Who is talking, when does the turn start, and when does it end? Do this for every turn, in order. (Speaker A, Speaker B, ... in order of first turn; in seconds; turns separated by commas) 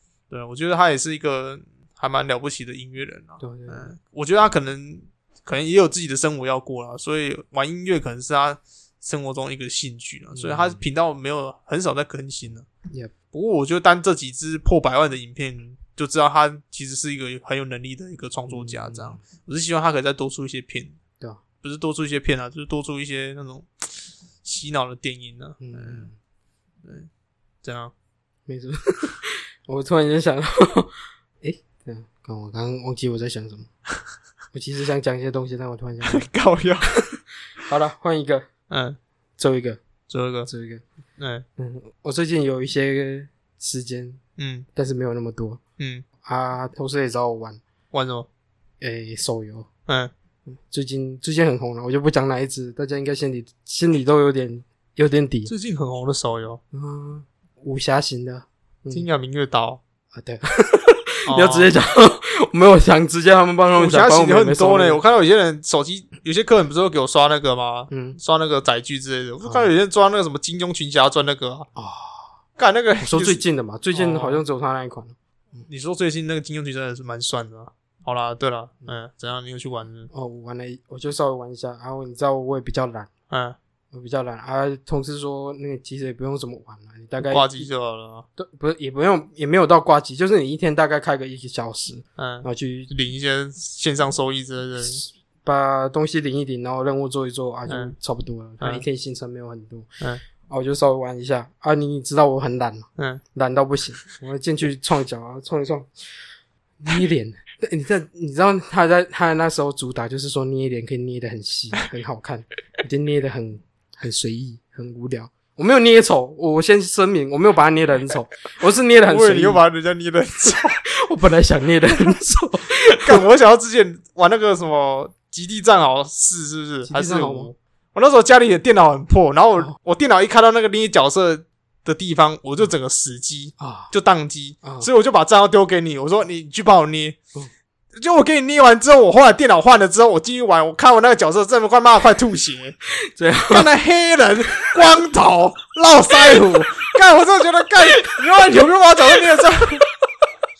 Speaker A: 0.3-12.7, Speaker B: 3.4-3.9, Speaker B: 10.3-10.8, Speaker A: 13.3-20.9, Speaker B: 18.5-19.2, Speaker A: 21.6-23.9, Speaker A: 24.4-26.1, Speaker B: 25.6-26.1, Speaker A: 26.8-27.1, Speaker A: 27.6-27.9, Speaker B: 28.5-33.7, Speaker B: 34.5-36.3, Speaker A: 36.0-36.9, Speaker B: 36.9-38.4, Speaker A: 38.7-39.0, Speaker B: 39.4-39.8, Speaker A: 40.1-40.5, Speaker B: 40.5-40.8, Speaker A: 41.2-41.4, Speaker B: 41.6-44.2, Speaker A: 44.4-44.6, Speaker B: 44.7-45.6, Speaker A: 45.8-46.0, Speaker B: 46.2-47.6, Speaker A: 47.9-48.3, Speaker B: 48.8-49.7, Speaker B: 50.6-55.5, Speaker A: 55.5-56.6, Speaker B: 56.7-59.0, Speaker A: 58.9-59.8, Speaker B: 60.1-65.0, Speaker A: 61.3-61.7, Speaker A: 63.7-71.7, Speaker B: 67.9-68.2, Speaker B: 69.4-69.7, Speaker B: 71.8-72.3, Speaker A: 72.6-73.4, Speaker B: 73.0-75.7, Speaker A: 73.9-74.4, Speaker A: 75.7-80.1, Speaker B: 80.1-83.1, Speaker A: 83.3-83.6, Speaker B: 83.9-87.7, Speaker A: 87.2-88.2, Speaker B: 88.4-92.9, Speaker A: 92.2-95.0, Speaker B: 94.8-99.9, Speaker A: 97.7-97.9, Speaker B: 100.5-105.9, Speaker B: 106.8-119.6, Speaker A: 119.0-120.8, Speaker B: 120.9-123.2, Speaker A: 123.0-137.2, Speaker B: 126.8-127.5, Speaker B: 133.6-133.9, Speaker B: 134.6-134.9, Speaker A: 137.9-142.8, Speaker B: 143.1-143.7, Speaker A: 143.5-149.9